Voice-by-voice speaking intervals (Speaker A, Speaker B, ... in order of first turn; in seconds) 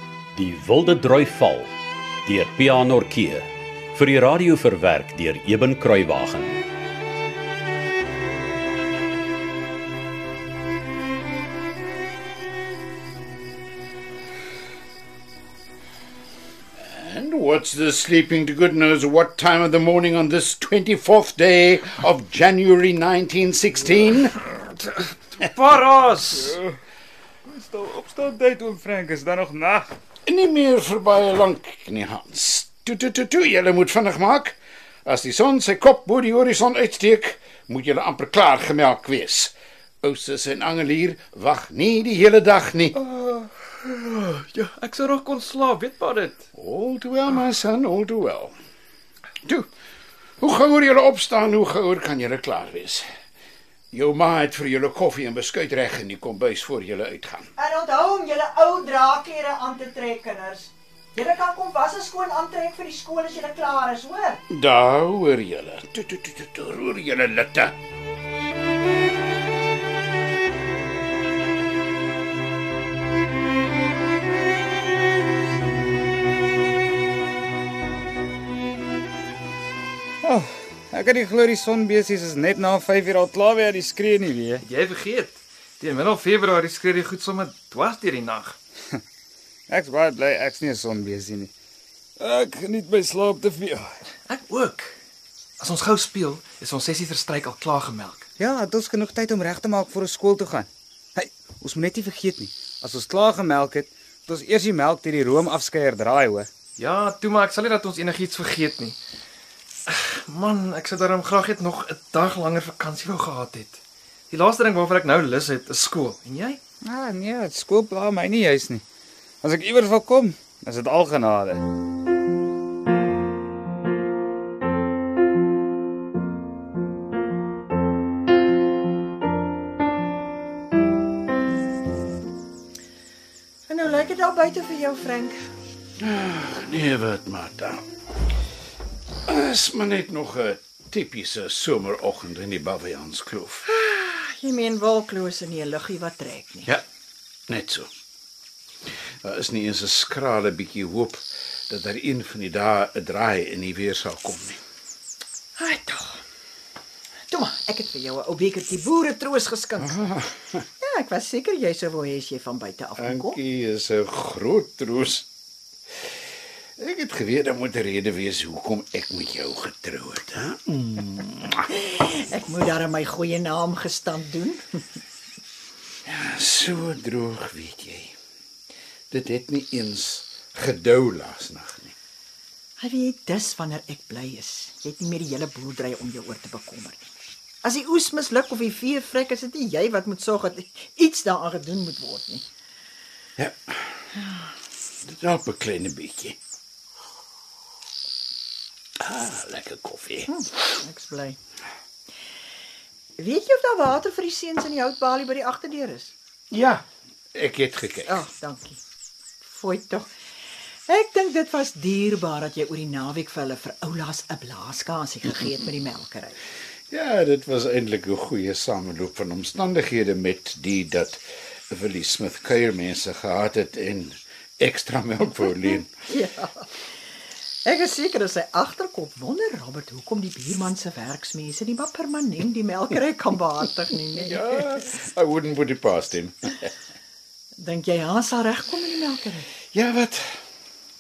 Speaker A: 0.3-1.7, 2.2-6.6
Speaker B: 16.8-24.3, 30.2-43.0, 46.5-48.5, 50.4-53.0, 53.9-57.5, 64.5-67.7, 136.0-137.8, 139.3-143.7, 147.5-147.9, 149.2-154.6, 159.8-160.7, 163.0-165.3, 166.8-171.6, 176.1-178.1, 179.1-181.9, 193.4-193.9, 195.0-196.4, 199.0-200.3, 206.5-206.8, 207.3-208.2, 216.9-225.9, 234.2-236.6, 239.7-240.4
Speaker C: 25.4-26.6, 43.0-46.4, 84.6-88.6, 94.3-95.0, 95.6-98.2, 106.8-109.0, 109.9-116.6
Speaker D: 26.4-26.7, 27.5-29.9, 80.2-84.6, 89.7-91.5, 92.2-94.0, 98.4-106.5, 116.8-118.8, 119.4-121.6
Speaker E: 57.5-64.4, 133.7-135.5, 143.7-146.7, 155.6-156.2, 157.3-159.9, 160.8-163.3, 171.7-174.6, 182.8-187.1, 187.6-192.4, 200.3-201.4, 203.2-206.1, 208.1-208.8, 209.4-210.1, 210.9-216.4, 226.1-226.7, 227.6-234.7, 237.6-239.5